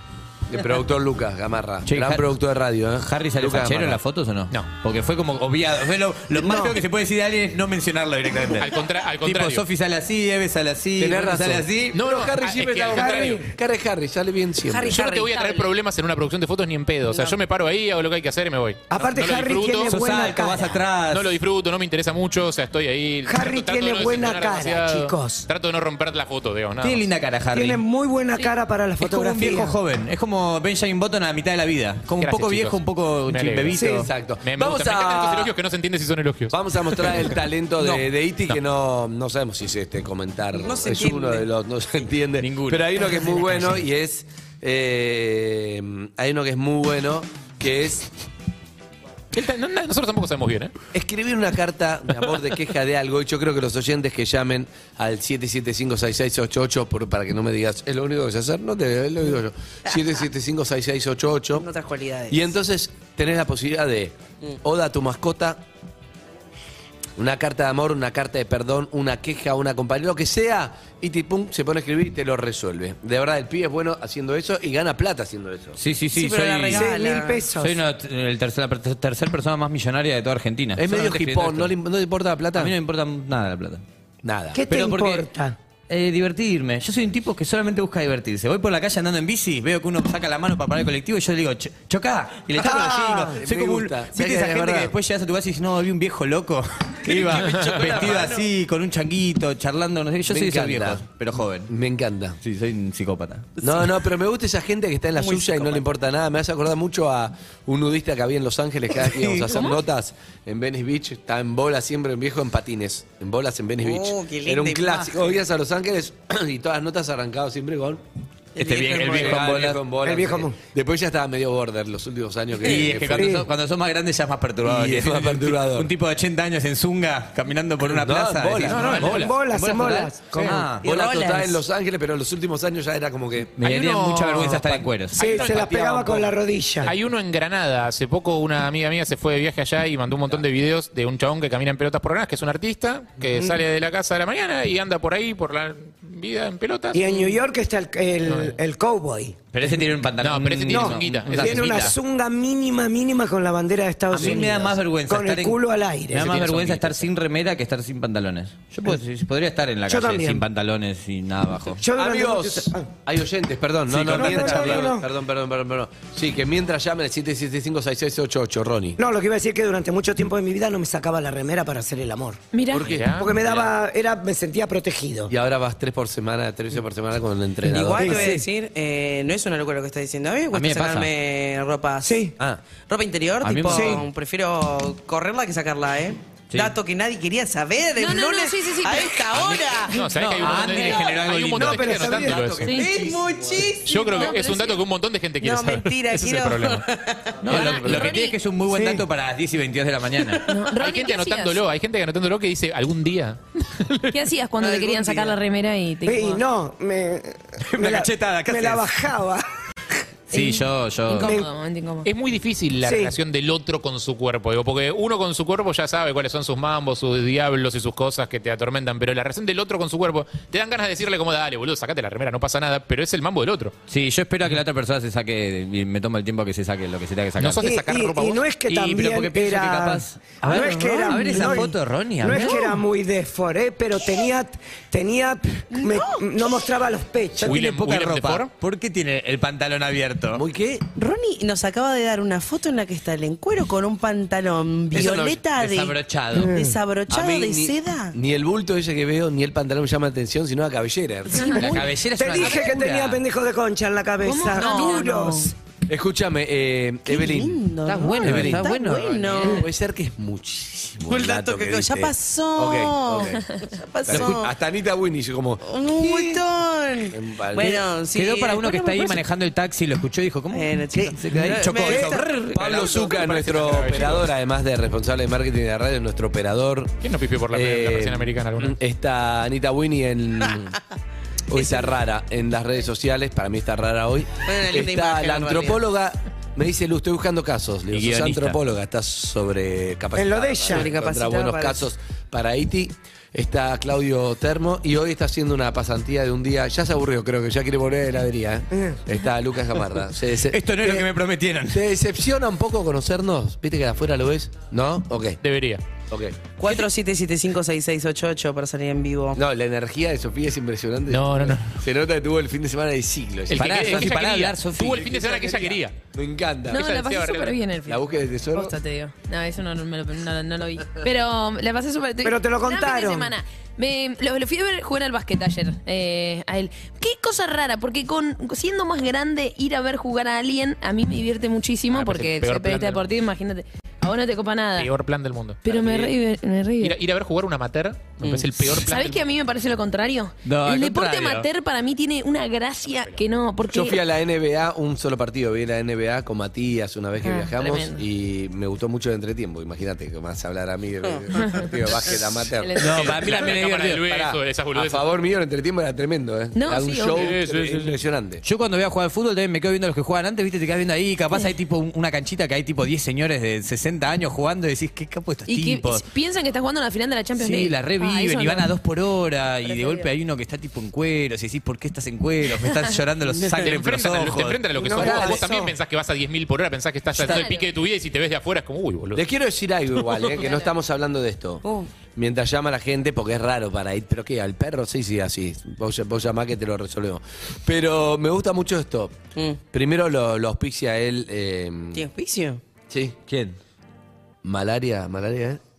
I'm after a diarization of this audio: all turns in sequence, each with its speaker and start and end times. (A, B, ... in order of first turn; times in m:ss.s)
0:00.5-0:04.0 A
0:01.8-0:02.3 B
0:03.0-0:12.0 B
0:06.4-0:06.8 C
0:08.6-0:09.6 D
0:11.0-0:15.0 A
0:11.9-0:13.4 D
0:12.9-0:13.5 C
0:14.7-0:15.6 E
0:14.9-0:19.9 D
0:17.1-0:17.3 E
0:18.9-0:20.8 C
0:19.9-0:21.3 B
0:21.1-0:27.1 D
0:23.2-0:25.5 C
0:26.8-0:27.8 B
0:27.5-0:29.8 C
0:29.0-0:34.1 B
0:32.2-0:33.8 D
0:33.7-0:34.1 C
0:33.9-0:35.5 A
0:34.4-0:37.3 D
0:36.5-0:48.1 A
0:37.8-0:38.1 E
0:40.5-0:41.5 E
0:42.4-0:43.8 B
0:49.3-0:50.7 D
0:50.9-1:01.7 A
1:01.6-1:02.6 E
1:02.3-1:05.6 A
1:07.2-1:15.8 A
1:15.8-1:16.9 B
1:16.1-1:17.4 E
1:16.7-1:17.8 C
1:17.5-1:21.7 B
1:20.8-1:22.8 A
1:22.6-1:23.8 B
1:24.2-1:24.7 A
1:24.5-1:25.6 C
1:24.6-1:25.2 B
1:25.9-1:41.7 B
1:32.6-1:33.4 C
1:32.6-1:34.9 A
1:37.1-1:38.4 E
1:37.1-1:38.3 A
1:37.4-1:38.1 D
1:40.3-1:41.0 A
1:41.7-1:42.4 A
1:42.4-1:43.5 B
1:43.6-1:58.0 A
1:45.2-1:45.9 E
1:49.0-1:49.6 B
1:53.8-1:54.9 E
1:58.6-1:59.5 E
1:58.6-1:59.8 B
1:59.0-2:03.4 A
2:00.0-2:00.6 C
2:02.6-2:10.9 B
2:02.7-2:02.9 E
2:03.1-2:03.5 C
2:04.6-2:05.9 A
2:07.8-2:09.3 A
2:08.6-2:09.3 D
2:08.8-2:10.6 C
2:10.4-2:13.8 A
2:10.8-2:11.6 E
2:13.6-2:15.4 B
2:13.9-2:14.6 E
2:14.5-2:14.8 A
2:15.1-2:16.3 D
2:15.2-2:16.9 C
2:16.8-2:27.2 D
2:26.9-2:29.4 C
2:28.3-2:28.6 D
2:29.5-2:32.0 B
2:30.2-2:31.9 D
2:30.7-2:36.5 C
2:34.1-2:35.6 B
2:36.1-2:41.8 B
2:36.6-2:36.9 D
2:39.9-2:40.4 C
2:41.8-2:42.9 C
2:41.9-2:49.0 A
2:43.9-2:44.9 B
2:44.1-2:45.1 C
2:49.0-2:52.4 C
2:52.5-2:52.9 F
2:52.7-2:53.1 A
2:52.8-2:53.6 D
2:53.1-2:55.3 C
2:55.3-2:58.4 A
2:57.6-3:02.2 E
2:58.0-2:58.4 C
3:00.5-3:01.1 B
3:02.0-3:02.3 C
3:02.9-3:10.0 E
3:03.4-3:04.0 B
3:03.7-3:04.0 C
3:06.5-3:06.8 B
3:08.0-3:09.4 F
3:09.4-3:12.7 D
3:10.1-3:12.2 B
3:11.6-3:12.6 C
3:12.1-3:13.2 A
3:12.6-3:13.0 F
3:12.6-3:14.3 E
3:13.8-3:16.9 D
3:14.1-3:14.8 F
3:15.4-3:17.4 E
3:17.4-3:18.2 D
3:17.4-3:20.4 B
3:17.5-3:18.4 F
3:18.7-3:19.0 C
3:20.5-3:21.6 F
3:20.8-3:24.1 D
3:24.1-3:26.4 F
3:24.6-3:25.3 E
3:26.1-3:29.4 C
3:27.6-3:28.9 B
3:30.3-3:31.4 B
3:30.3-3:32.1 F
3:31.1-3:31.5 C
3:32.0-3:43.8 D
3:32.8-3:33.2 C
3:43.9-3:47.7 B
3:47.4-3:48.5 D
3:47.6-3:57.6 C
3:48.7-3:52.7 B
3:50.5-3:51.6 E
3:55.7-3:56.6 E
3:57.4-3:58.5 D
3:57.4-4:00.4 B
4:00.3-4:00.9 A
4:00.9-4:08.2 E
4:04.9-4:05.5 A
4:05.6-4:06.6 B
4:06.3-4:06.8 C
4:07.1-4:11.8 A
4:11.4-4:11.6 F
4:11.4-4:11.9 E
4:11.6-4:13.2 B
4:12.2-4:15.5 C
4:14.2-4:15.5 F
4:14.5-4:15.3 E
4:15.9-4:18.8 A
4:17.0-4:19.7 E
4:17.8-4:19.6 B
4:19.3-4:25.7 A
4:21.1-4:24.5 E
4:25.6-4:29.2 E
4:27.1-4:27.9 A
4:28.1-4:33.0 B
4:30.5-4:32.5 E
4:31.4-4:37.0 A
4:32.6-4:34.3 D
4:37.0-4:38.8 D
4:37.5-4:40.8 A
4:41.5-5:01.1 A
4:41.5-4:42.0 E
4:44.4-4:45.8 E
4:47.9-4:48.6 B
4:50.1-4:50.9 C
4:50.7-4:51.9 E
4:58.7-4:59.0 C
5:00.5-5:01.8 B
5:01.7-5:05.4 A
5:05.4-5:05.8 D
5:06.1-5:06.5 A
5:06.6-5:09.4 E
5:09.4-5:16.9 A
5:11.1-5:11.8 D
5:13.5-5:16.0 D
5:13.5-5:15.1 B
5:16.7-5:34.9 F
5:16.7-5:17.6 D
5:17.9-5:18.7 A
5:22.2-5:23.3 C
5:31.9-5:33.0 D
5:34.8-5:35.6 D
5:35.6-5:37.0 F
5:35.7-5:36.1 A
5:36.8-5:39.2 D
5:38.6-5:44.0 F
5:40.4-5:41.5 B
5:42.9-5:43.2 D
5:43.7-5:58.4 A
5:47.2-5:48.0 F
5:52.6-5:53.0 F
5:52.8-5:54.0 B
5:52.8-5:55.0 D
5:56.5-5:57.3 F
5:57.1-5:58.0 D
5:58.4-6:06.0 B
6:05.5-6:08.7 F
6:07.4-6:15.4 B
6:09.6-6:10.0 F
6:13.3-6:13.6 E
6:13.6-6:19.2 D
6:14.8-6:15.7 C
6:17.2-6:17.7 F
6:19.1-6:29.2 A
6:20.4-6:20.7 F
6:21.6-6:21.9 E
6:29.7-6:32.0 A
6:31.9-6:32.6 E
6:32.9-6:33.2 A
6:33.3-6:33.6 B
6:34.4-6:35.6 A